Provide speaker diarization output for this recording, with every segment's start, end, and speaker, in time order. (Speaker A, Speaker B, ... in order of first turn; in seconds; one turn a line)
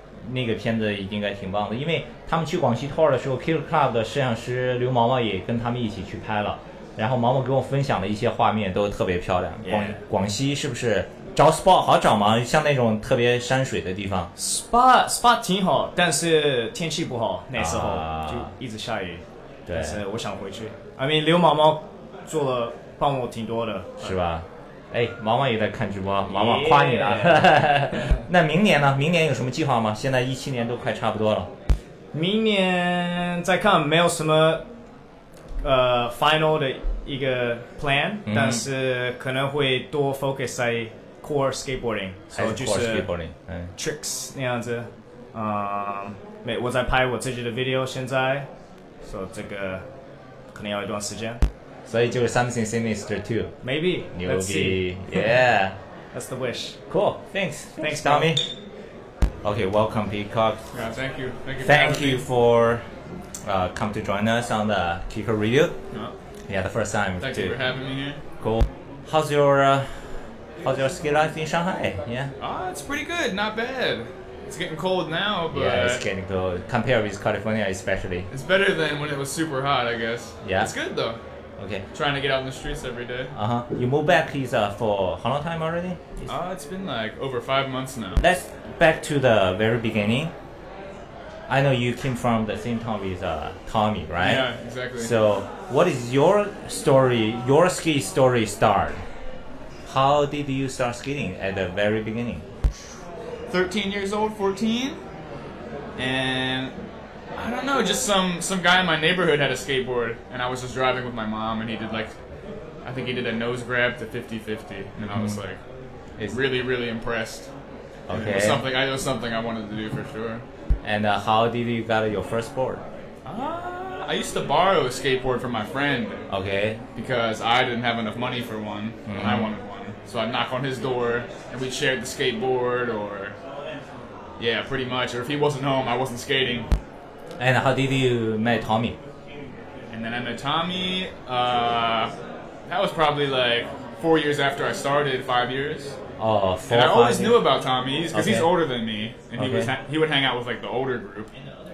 Speaker A: 0.2-14.3
Speaker B: 9.6-10.0
Speaker B: 14.3-24.2
Speaker A: 17.6-18.5
Speaker A: 19.7-20.0
Speaker A: 24.0-31.5
Speaker B: 26.3-28.1
Speaker B: 32.1-34.6
Speaker B: 35.6-43.1
Speaker A: 38.3-38.6
Speaker A: 42.3-43.7
Speaker B: 43.8-48.5
Speaker B: 49.0-49.8
Speaker B: 50.5-51.4
Speaker A: 51.9-53.5
Speaker B: 53.6-55.4
Speaker A: 54.1-55.7
Speaker B: 56.1-56.8
Speaker A: 56.9-58.5
Speaker B: 57.8-58.3
Speaker A: 59.4-60.6
Speaker C: 60.7-62.2
Speaker A: 61.6-62.8
Speaker A: 63.4-65.7
Speaker A: 66.5-67.5
Speaker C: 67.2-68.2
Speaker A: 68.4-72.3
Speaker C: 72.4-76.0
Speaker A: 75.5-78.3
Speaker C: 78.3-81.2
Speaker A: 80.4-80.7
Speaker C: 81.9-83.3
Speaker A: 83.3-86.3
Speaker C: 86.3-88.2
Speaker A: 88.2-90.3
Speaker A: 91.5-94.5
Speaker C: 94.2-95.1
Speaker A: 95.0-99.0
Speaker A: 99.8-102.4
Speaker C: 103.5-105.0
Speaker C: 106.0-106.7
Speaker C: 107.3-112.1
Speaker C: 112.8-115.6
Speaker A: 115.1-115.4
Speaker C: 116.3-117.5
Speaker A: 118.1-118.6
Speaker C: 118.1-120.4
Speaker A: 120.8-122.8
Speaker C: 123.2-126.2
Speaker A: 126.3-126.8
Speaker C: 127.0-133.3
Speaker A: 129.1-129.5
Speaker C: 134.4-136.7
Speaker A: 137.4-139.0
Speaker C: 139.9-142.1
Speaker C: 142.7-146.0
Speaker A: 146.2-147.4
Speaker C: 146.7-151.3
Speaker A: 148.1-148.5
Speaker A: 149.4-149.7